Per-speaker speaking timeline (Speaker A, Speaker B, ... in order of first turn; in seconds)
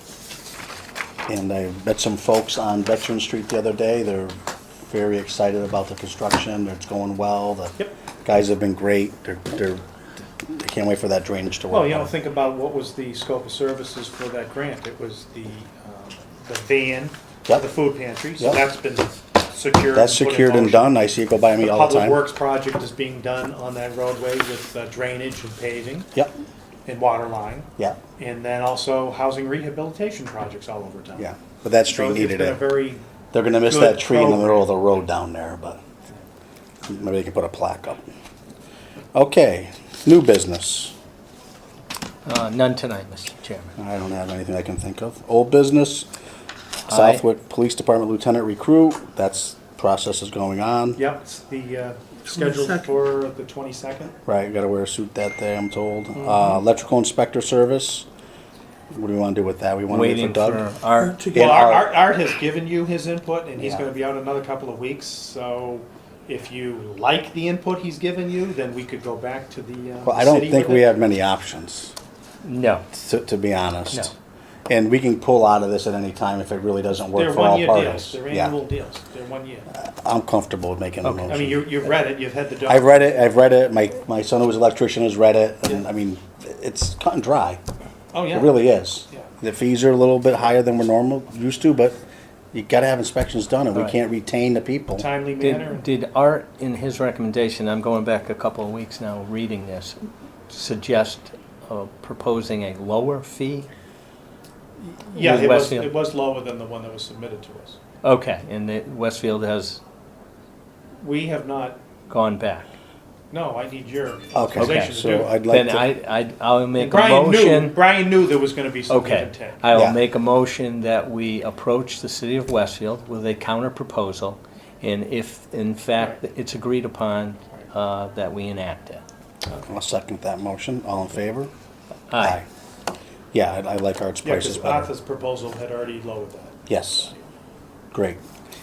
Speaker A: 1.3-9.8, 10.4-12.1, 19.9-22.2, 31.2-32.7, 33.3-35.8, 36.9-38.0, 39.1-40.9, 43.8-46.1, 46.9-51.0, 54.2-58.1, 58.9-61.9, 63.6-63.9, 70.0-71.9, 72.9-74.1, 74.7-78.6, 79.7-81.7, 82.6-87.6, 88.3-92.0, 92.5-95.1, 114.3-115.9, 119.7-120.0, 129.7-131.5, 132.2-132.5, 133.3-134.9, 136.7-137.1, 137.9-138.2
Speaker B: 11.7-20.9, 21.6-26.1, 26.9-31.3, 31.9-33.0, 33.7-34.6, 51.0-54.1, 61.3-70.9, 77.2-79.7, 81.3-83.0, 88.1-89.3, 95.0-95.9, 105.1-107.8, 111.0-111.8, 113.3-115.3, 116.8-119.6, 134.2-136.6
Speaker C: 42.2-43.8, 46.9-47.2, 59.9-61.2, 72.4-72.9, 81.0-81.3, 95.4-103.7, 105.2-105.9, 108.0-109.8, 112.1-112.7, 114.6-117.8, 118.9-129.0, 132.1-132.4